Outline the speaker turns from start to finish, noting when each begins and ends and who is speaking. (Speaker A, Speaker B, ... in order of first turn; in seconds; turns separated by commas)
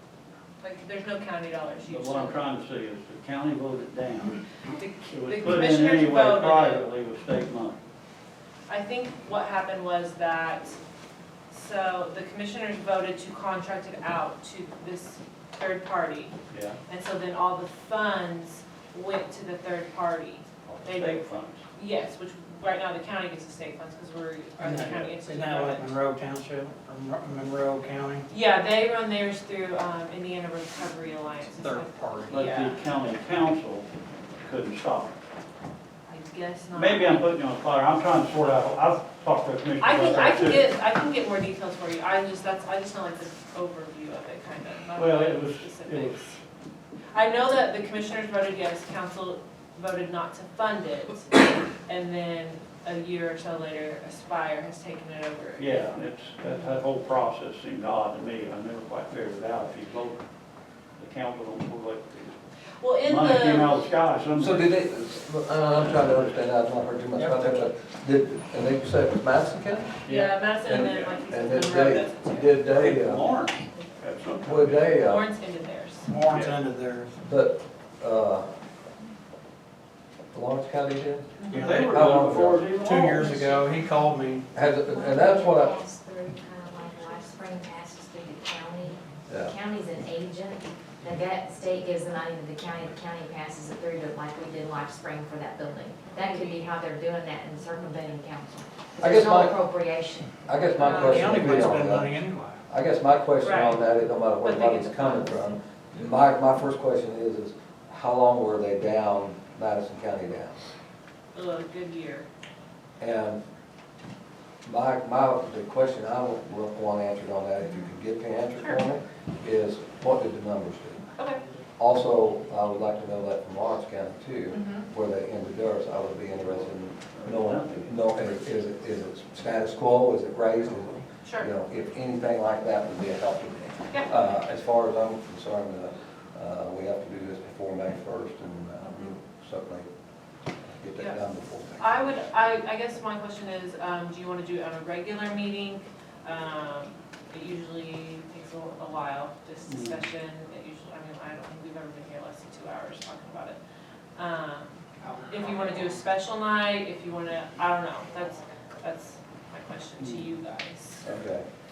Speaker A: 0.6-2.4, Speaker B: 1.9-4.4, Speaker A: 4.7-6.9, Speaker B: 5.0-7.8, Speaker A: 8.7-10.8, Speaker A: 11.5-16.4, Speaker B: 16.5-16.8, Speaker A: 16.9-25.9, Speaker B: 20.7-21.6, Speaker C: 24.6-28.3, Speaker A: 28.3-32.8, Speaker C: 31.6-32.4, Speaker B: 32.3-33.9, Speaker B: 34.4-35.2, Speaker A: 36.1-37.3, Speaker B: 36.7-40.7, Speaker A: 39.8-46.4, Speaker B: 45.0-46.4, Speaker A: 47.1-55.9, Speaker B: 55.6-60.2, Speaker A: 56.5-56.7, Speaker B: 61.0-62.4, Speaker A: 62.8-63.8, Speaker B: 63.0-64.8, Speaker D: 64.4-70.0, Speaker B: 65.8-66.4, Speaker B: 67.2-67.6, Speaker B: 70.0-71.1, Speaker A: 70.1-72.5, Speaker D: 70.6-73.2, Speaker B: 72.7-75.0, Speaker D: 74.4-75.3, Speaker A: 74.9-76.1, Speaker C: 76.1-77.2, Speaker B: 76.3-76.6, Speaker D: 77.2-78.5, Speaker D: 80.3-82.7, Speaker A: 81.4-81.8, Speaker B: 81.5-83.6, Speaker C: 81.5-84.5, Speaker D: 84.5-85.8, Speaker E: 84.8-100.4, Speaker D: 89.3-89.6, Speaker A: 96.1-96.6, Speaker D: 99.0-99.6, Speaker D: 100.5-102.2, Speaker A: 100.8-101.7, Speaker C: 100.9-102.6, Speaker D: 102.7-110.6, Speaker A: 103.4-103.8, Speaker A: 104.4-105.5, Speaker A: 111.3-112.3, Speaker D: 113.0-113.4, Speaker D: 114.6-121.1, Speaker A: 117.6-117.9, Speaker A: 121.2-121.4, Speaker D: 121.8-139.9, Speaker A: 124.5-124.9, Speaker B: 126.3-128.3, Speaker A: 131.2-131.5, Speaker A: 138.8-139.2, Speaker D: 140.7-142.1, Speaker A: 141.8-153.6, Speaker B: 149.7-150.1, Speaker A: 154.2-161.1, Speaker C: 155.0-155.9, Speaker B: 160.0-160.3, Speaker D: 161.1-161.4